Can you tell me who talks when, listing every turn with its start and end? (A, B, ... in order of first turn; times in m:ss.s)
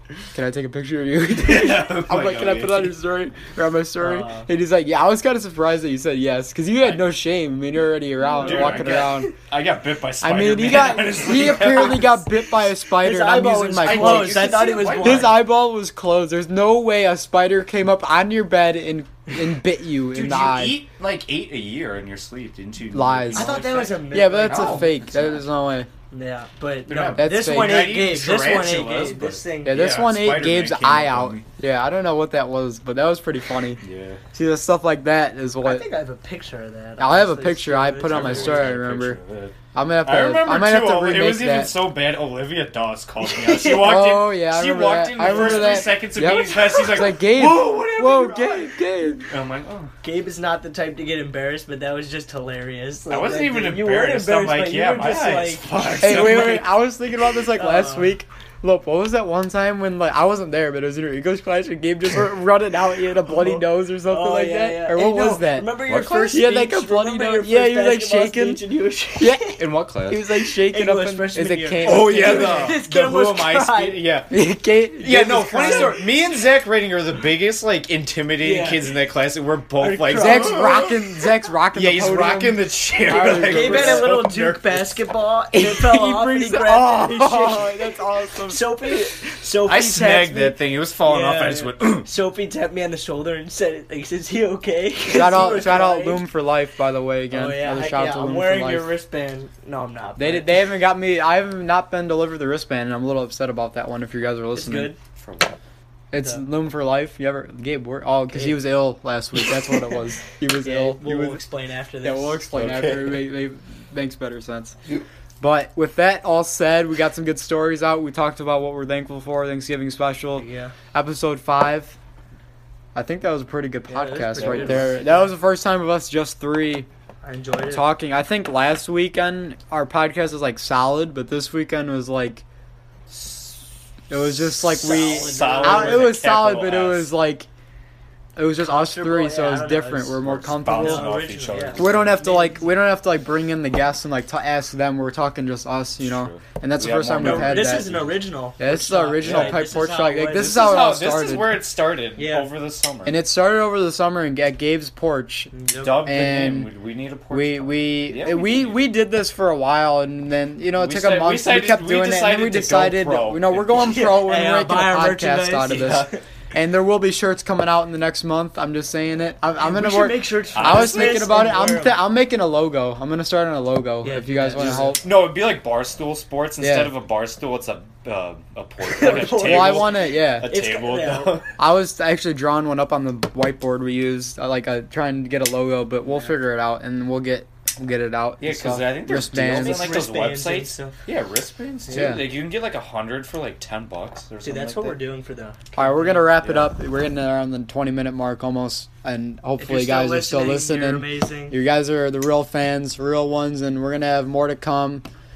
0:00.3-0:09.3 A
0:01.4-0:02.9 B
0:04.0-0:04.5 C
0:06.8-0:07.1 B
0:08.3-0:09.3 C
0:08.4-0:12.2 B
0:10.2-0:20.8 A
0:11.6-0:12.1 C
0:12.8-0:15.5 C
0:13.8-0:15.4 B
0:20.1-0:25.4 B
0:22.9-0:25.9 A
0:23.3-0:25.0 C
0:26.1-0:29.8 C
0:26.9-0:31.4 B
0:27.1-0:27.9 A
0:29.6-0:35.8 A
0:33.8-0:34.2 B
0:35.6-0:38.8 C
0:37.0-0:39.2 A
0:38.0-0:49.9 B
0:39.7-0:41.7 A
0:43.2-0:43.9 C
0:43.7-0:49.3 A
0:45.2-0:46.8 C
0:50.0-0:56.7 C
0:53.1-0:56.6 B
0:56.0-1:08.6 A
0:57.5-0:58.2 C
1:03.2-1:09.6 C
1:05.9-1:06.5 B
1:09.2-1:12.8 A
1:09.6-1:10.2 B
1:10.3-1:14.0 C
1:11.8-1:14.3 B
1:14.3-1:16.0 A
1:15.0-1:21.0 B
1:18.4-1:18.9 C
1:19.8-1:20.8 C
1:20.1-1:24.1 A
1:21.7-1:25.0 B
1:23.1-1:36.3 C
1:25.5-1:28.7 A
1:29.6-1:32.1 B
1:35.1-1:38.9 A
1:37.3-1:40.7 C
1:40.2-1:44.9 A
1:44.5-1:45.0 C
1:45.2-1:45.6 B
1:46.1-1:51.4 A
1:48.3-1:48.6 C
1:50.5-1:52.5 C
1:52.0-1:54.8 A
1:52.5-1:53.2 B
1:55.4-2:02.0 A
2:00.3-2:00.7 C
2:02.9-2:06.9 A
2:03.9-2:05.3 C
2:04.4-2:05.0 B
2:07.2-2:07.8 C
2:07.7-2:12.4 A
2:13.1-2:17.2 B
2:14.1-2:17.5 A
2:14.7-2:16.2 C
2:18.4-2:21.1 A
2:18.5-2:22.7 C
2:20.2-2:22.2 B
2:21.7-2:27.9 A
2:26.0-2:28.1 B
2:27.1-2:30.8 C
2:28.6-2:31.6 A
2:29.2-2:29.6 B
2:30.4-2:33.2 B
2:32.1-2:32.5 C
2:33.0-2:36.7 A
2:35.5-2:36.0 C
2:35.7-2:38.9 B
2:37.3-2:55.0 A
2:40.8-2:44.0 B
2:43.7-2:46.2 C
2:49.6-2:52.0 C
2:50.5-2:51.2 B
2:54.0-2:55.0 C
2:54.6-3:01.5 B
2:56.6-2:57.0 A
2:58.8-3:01.4 C
2:59.2-3:00.6 A
3:01.6-3:10.0 A
3:08.4-3:15.0 B
3:09.3-3:11.0 C
3:11.9-3:12.2 A
3:14.4-3:16.4 C
3:15.8-3:25.0 A
3:16.4-3:16.7 B
3:19.6-3:21.6 C